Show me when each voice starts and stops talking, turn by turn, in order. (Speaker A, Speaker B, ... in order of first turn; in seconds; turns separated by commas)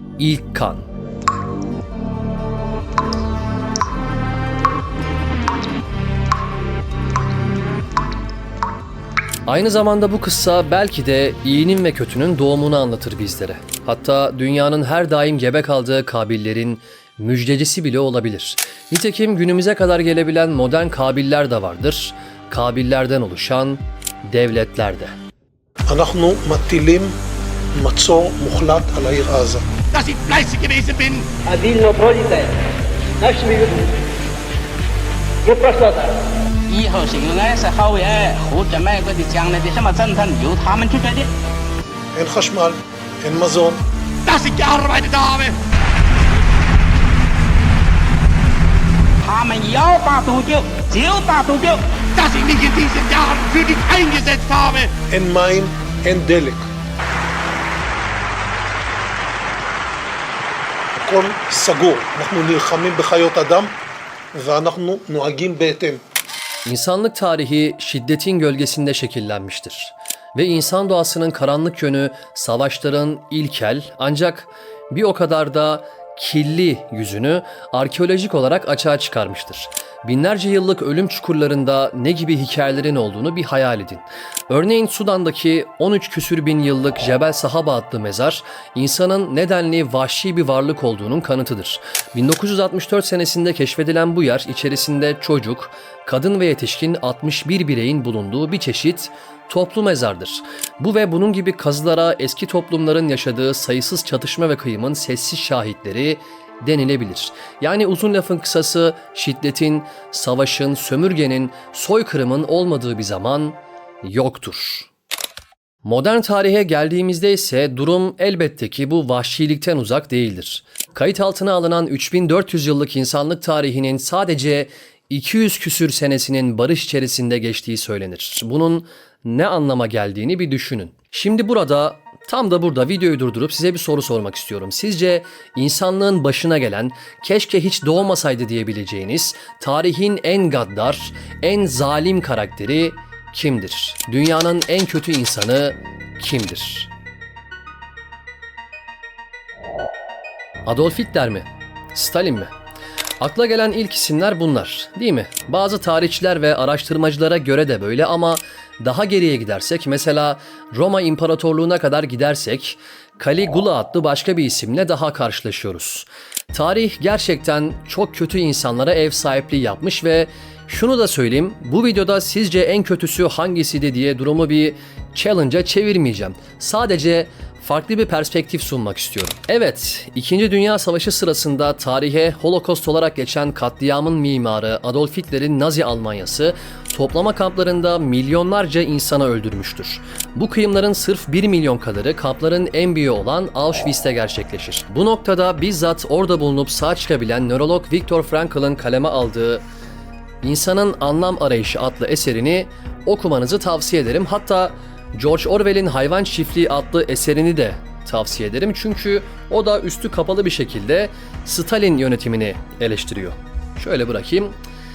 Speaker A: 0.2-0.9, Speaker A: 9.5-25.1, Speaker B: 25.9-27.1, Speaker B: 27.8-29.6, Speaker C: 29.9-31.3, Speaker D: 31.5-32.5, Speaker D: 33.2-33.9, Speaker D: 35.5-36.1, Speaker E: 36.7-41.3, Speaker B: 42.1-43.8, Speaker C: 44.3-45.6, Speaker E: 49.2-52.0, Speaker C: 52.1-54.9, Speaker B: 55.1-56.7, Speaker B: 61.0-63.8, Speaker B: 64.3-66.0, Speaker A: 66.7-114.9, Speaker A: 115.8-146.9, Speaker A: 150.7-152.5, Speaker A: 153.2-199.6, Speaker A: 200.4-214.6